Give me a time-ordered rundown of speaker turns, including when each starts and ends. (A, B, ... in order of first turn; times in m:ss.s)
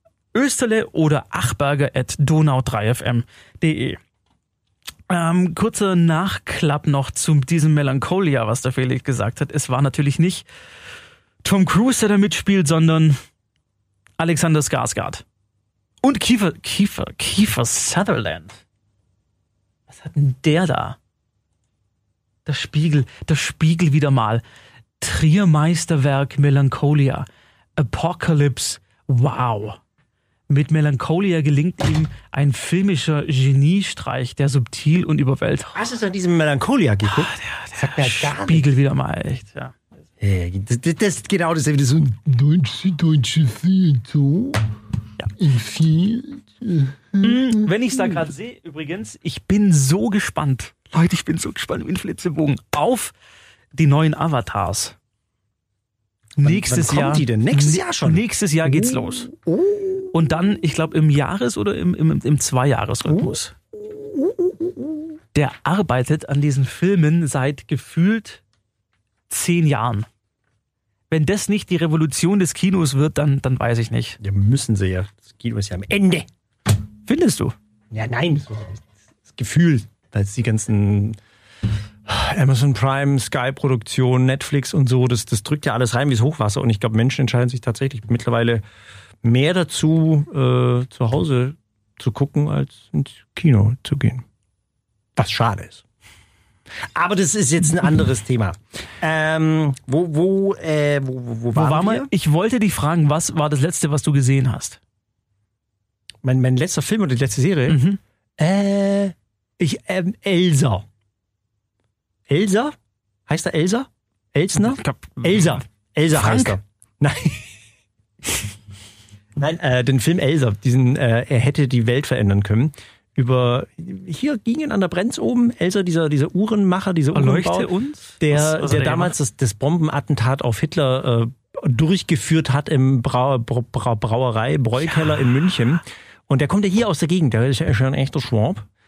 0:00.3-0:04.0 A
0:05.1-0:10.4 A
0:11.4-0:13.2 A
0:14.2-0:15.2 A
0:16.0-0:18.6 A
0:19.9-0:21.0 A
0:22.4-0:24.4 A
0:25.0-0:27.2 A
0:27.8-0:29.8 A
0:30.5-0:35.8 A
0:35.7-0:38.7 B
0:37.1-0:39.8 A
0:40.2-0:44.6 B
0:45.2-0:48.2 B
0:47.2-0:53.1 A
0:53.7-0:54.9 A
0:56.4-0:59.3 A
0:56.4-1:00.1 B
1:00.1-1:03.5 A
1:03.0-1:05.2 B
1:05.3-1:08.4 A
1:09.3-1:10.1 A
1:11.1-1:14.2 A
1:14.2-1:16.3 B
1:17.0-1:17.5 A
1:17.9-1:21.2 B
1:22.1-1:28.6 B
1:29.2-1:34.2 B
1:35.2-1:35.8 B
1:36.9-1:42.1 B
1:41.5-1:44.8 A
1:46.2-1:47.8 B
1:47.7-1:48.0 A
1:48.4-1:50.8 B
1:52.3-1:52.8 B
1:53.3-1:57.6 B
1:54.6-1:56.6 A
1:59.4-2:07.7 B
2:07.1-2:09.1 A
2:08.2-2:18.7 B